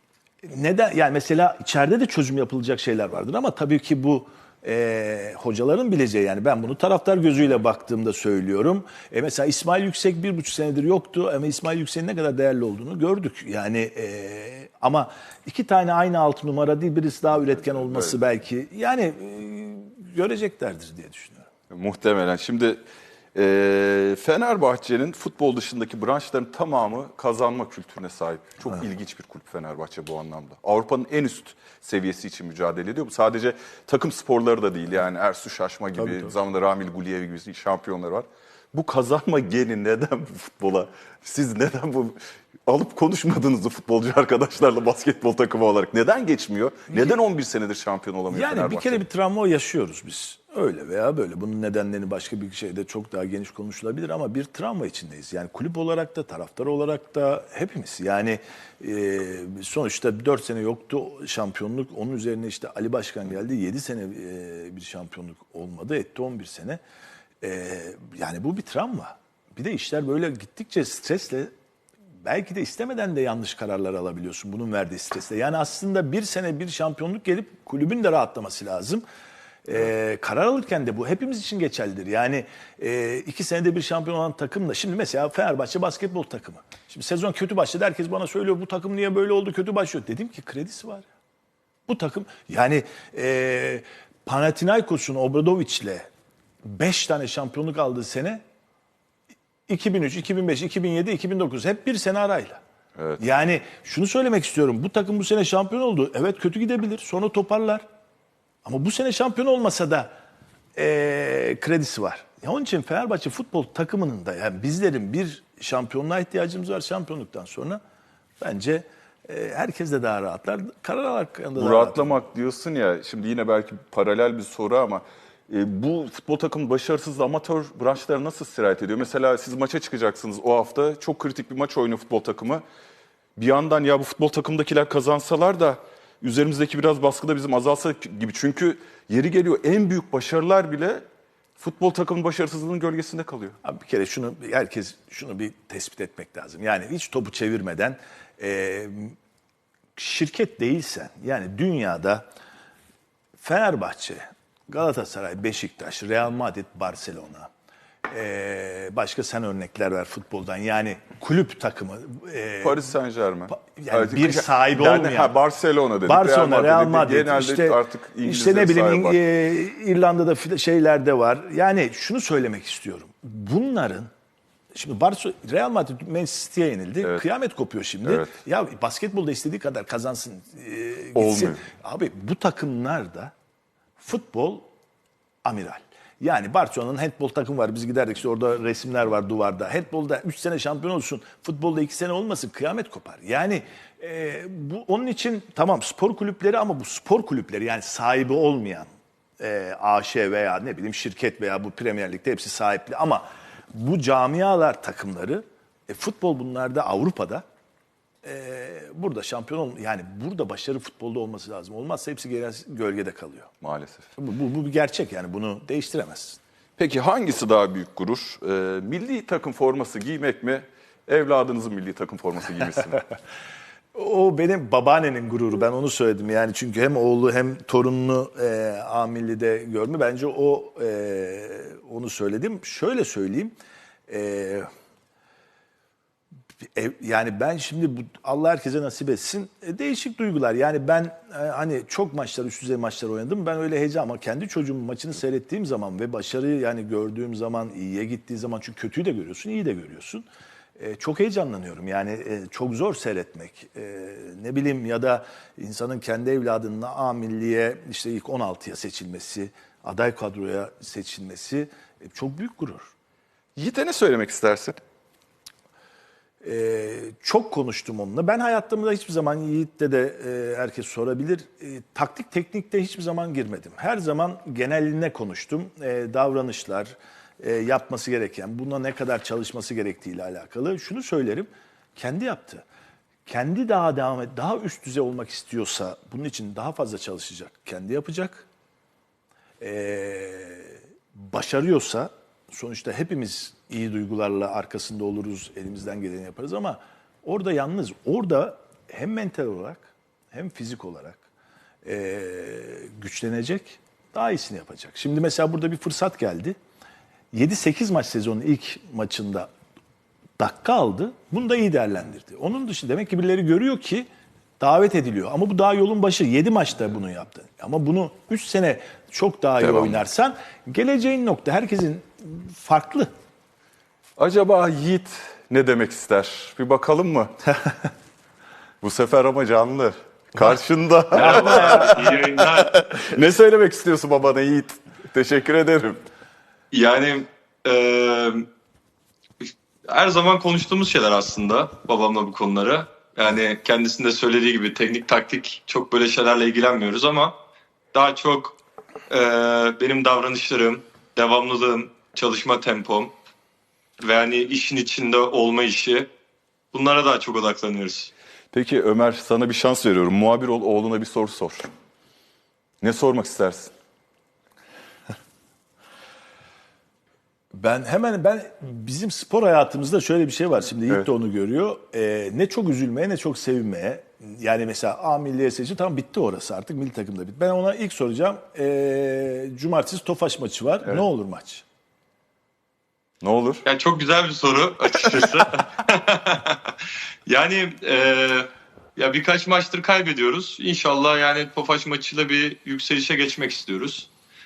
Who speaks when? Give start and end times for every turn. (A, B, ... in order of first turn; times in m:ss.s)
0:00.4-0:21.5 A
0:17.6-0:18.2 B
0:21.7-0:22.8 B
0:23.3-0:49.0 B
0:46.9-0:47.2 A
0:48.3-1:06.8 A
1:07.4-1:11.5 A
1:12.2-1:19.0 A
1:19.6-1:31.1 A
1:31.9-1:36.1 A
1:36.6-1:38.4 A
1:39.7-1:42.6 A
1:43.2-1:47.8 A
1:48.6-1:50.1 A
1:50.8-1:57.8 A
1:58.4-2:02.2 A
2:01.6-2:12.6 B
2:13.4-2:21.0 B
2:21.6-2:23.6 B
2:23.6-2:29.2 A
2:30.0-2:32.2 A
2:33.4-2:37.5 A
2:38.1-2:42.8 A
2:42.6-2:49.2 B
2:43.5-2:45.3 A
2:46.0-2:54.1 A
2:54.7-3:03.3 A
2:58.0-2:58.4 B
3:01.1-3:01.6 B
3:04.0-3:04.7 A
3:05.4-3:18.9 A
3:19.4-3:27.4 A
3:28.2-3:33.5 A
3:33.6-3:34.1 B
3:34.2-3:36.4 A
3:36.8-3:43.0 B
3:43.9-3:53.5 A
3:54.1-3:54.7 A
3:56.7-4:22.9 A
4:23.6-4:24.8 B
4:26.4-4:42.6 A
4:43.3-4:48.5 A
4:49.6-5:01.2 A
5:01.8-5:06.6 A
5:07.3-5:09.5 A
5:10.4-5:14.1 A
5:14.6-5:23.1 A
5:19.6-5:20.0 B
5:24.2-5:27.4 B
5:28.8-5:36.0 B
5:31.1-5:32.2 A
5:31.1-5:32.8 C
5:36.7-5:38.5 C
5:39.4-5:47.3 C
5:47.9-5:48.6 C
5:49.1-5:53.1 C
5:54.0-5:56.1 C
5:56.7-5:58.1 C
5:58.5-6:01.7 B
6:02.8-6:03.7 B
6:07.5-6:21.6 A
6:23.2-6:23.6 B
6:23.6-6:34.1 C